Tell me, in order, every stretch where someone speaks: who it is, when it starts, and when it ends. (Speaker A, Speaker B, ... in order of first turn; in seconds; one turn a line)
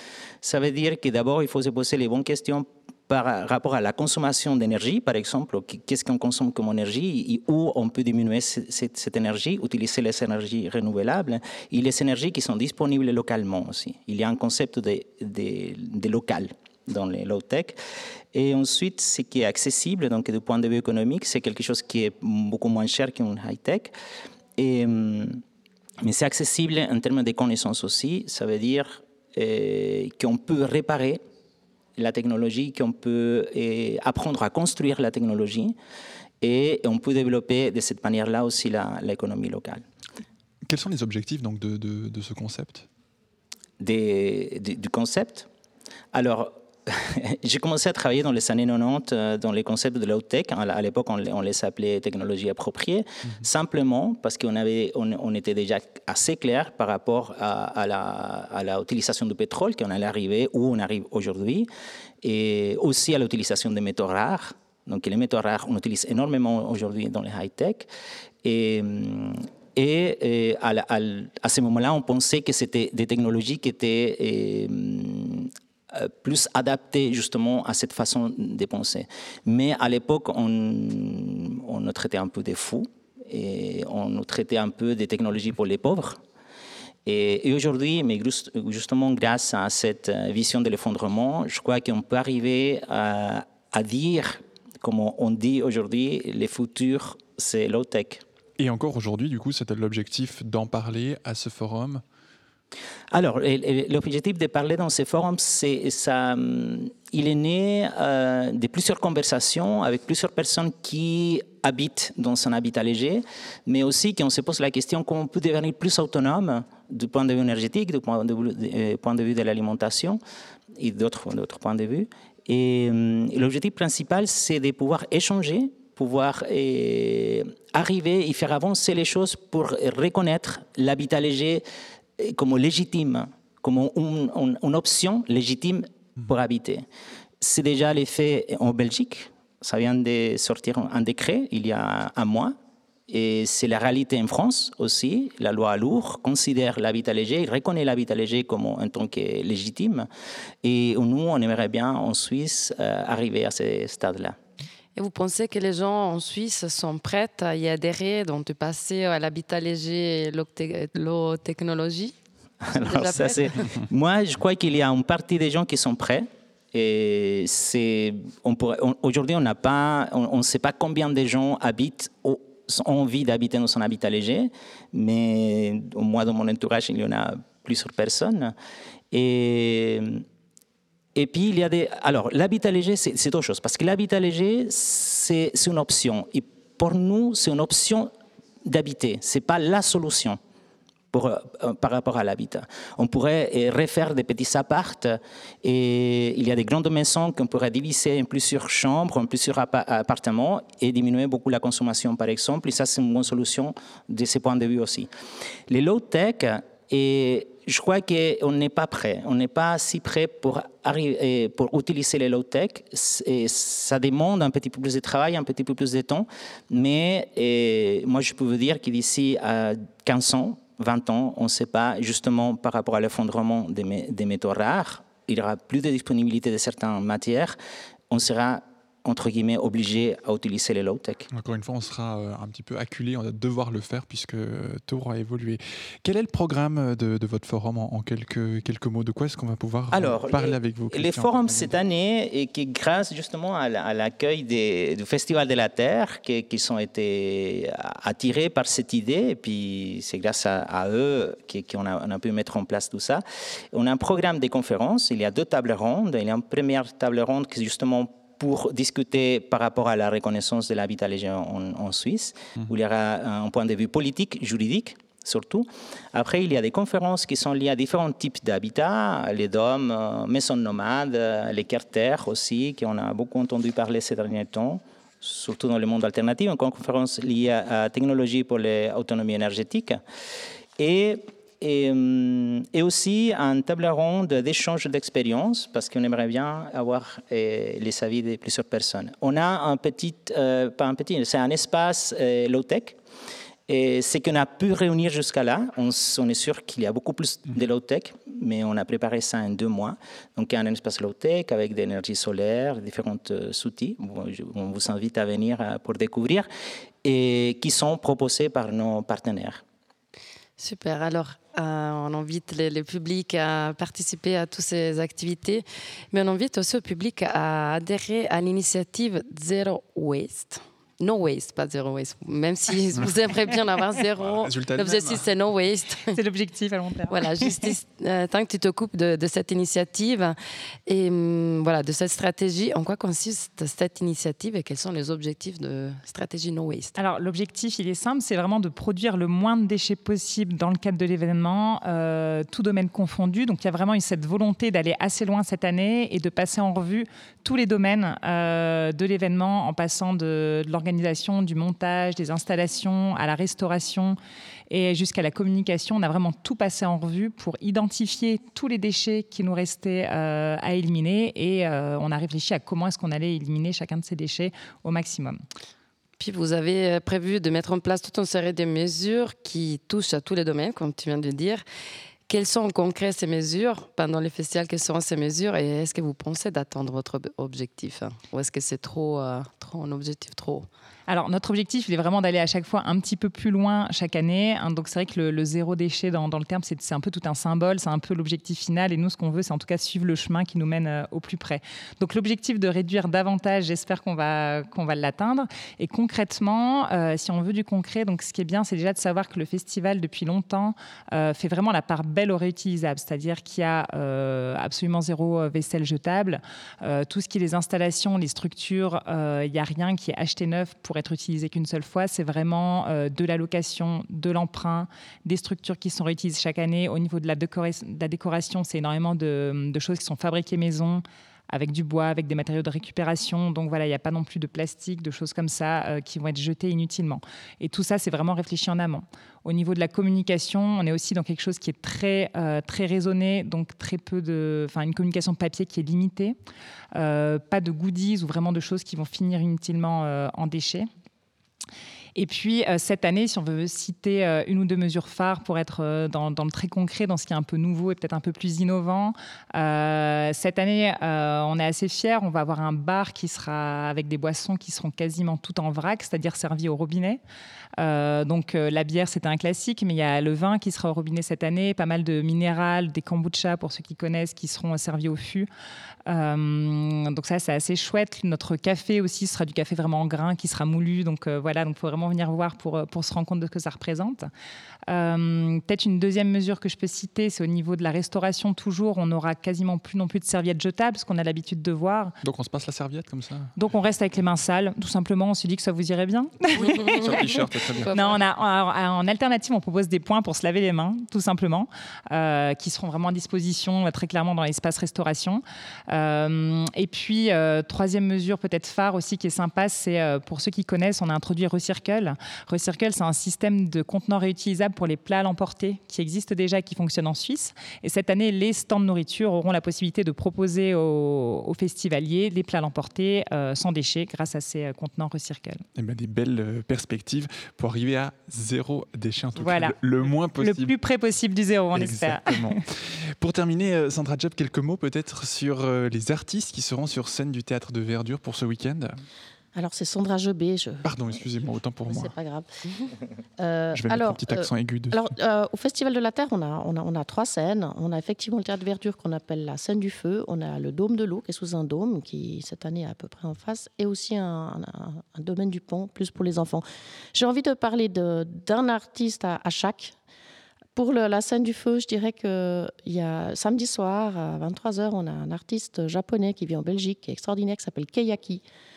Speaker A: 0.4-17.8
Speaker A: 18.3-23.9
Speaker A: 24.6-25.4
Speaker A: 26.0-31.2
Speaker A: 32.0-35.8
Speaker A: 36.4-39.9
Speaker B: 40.6-42.9
Speaker A: 43.8-45.5
Speaker A: 46.1-61.7
Speaker A: 62.2-67.9
Speaker A: 68.4-86.2
Speaker A: 87.1-98.2
Speaker B: 98.6-102.0
Speaker A: 103.1-120.2
Speaker A: 120.8-131.6
Speaker A: 132.2-136.8
Speaker A: 137.4-142.6
Speaker A: 143.1-150.1
Speaker A: 150.6-154.4
Speaker C: 155.0-162.2
Speaker A: 162.6-178.5
Speaker C: 162.8-163.7
Speaker A: 179.1-180.2
Speaker A: 181.2-188.1
Speaker A: 188.7-190.4
Speaker A: 191.1-205.1
Speaker A: 205.7-227.6
Speaker A: 228.1-231.3
Speaker B: 231.3-241.8
Speaker A: 239.9-280.0
Speaker A: 280.8-293.0
Speaker A: 293.7-306.5
Speaker A: 307.0-309.6
Speaker C: 310.6-326.2
Speaker B: 324.2-325.2
Speaker D: 326.1-327.8
Speaker C: 327.1-330.4
Speaker C: 330.9-337.0
Speaker D: 337.0-354.2
Speaker D: 354.7-365.4
Speaker C: 366.2-371.6
Speaker C: 372.3-380.7
Speaker D: 381.1-436.4
Speaker D: 436.9-440.9
Speaker D: 442.1-457.2
Speaker D: 457.8-465.5
Speaker D: 466.1-474.3
Speaker D: 474.9-482.1
Speaker B: 482.2-483.5
Speaker D: 483.6-515.6
Speaker C: 486.6-488.2
Speaker B: 487.0-487.9
Speaker B: 515.8-520.7
Speaker D: 519.4-519.8
Speaker D: 520.4-522.6
Speaker B: 521.8-529.0
Speaker E: 529.5-530.9
Speaker B: 530.8-532.1
Speaker E: 531.8-532.5
Speaker E: 533.4-550.0
Speaker B: 533.7-535.1
Speaker E: 550.8-558.4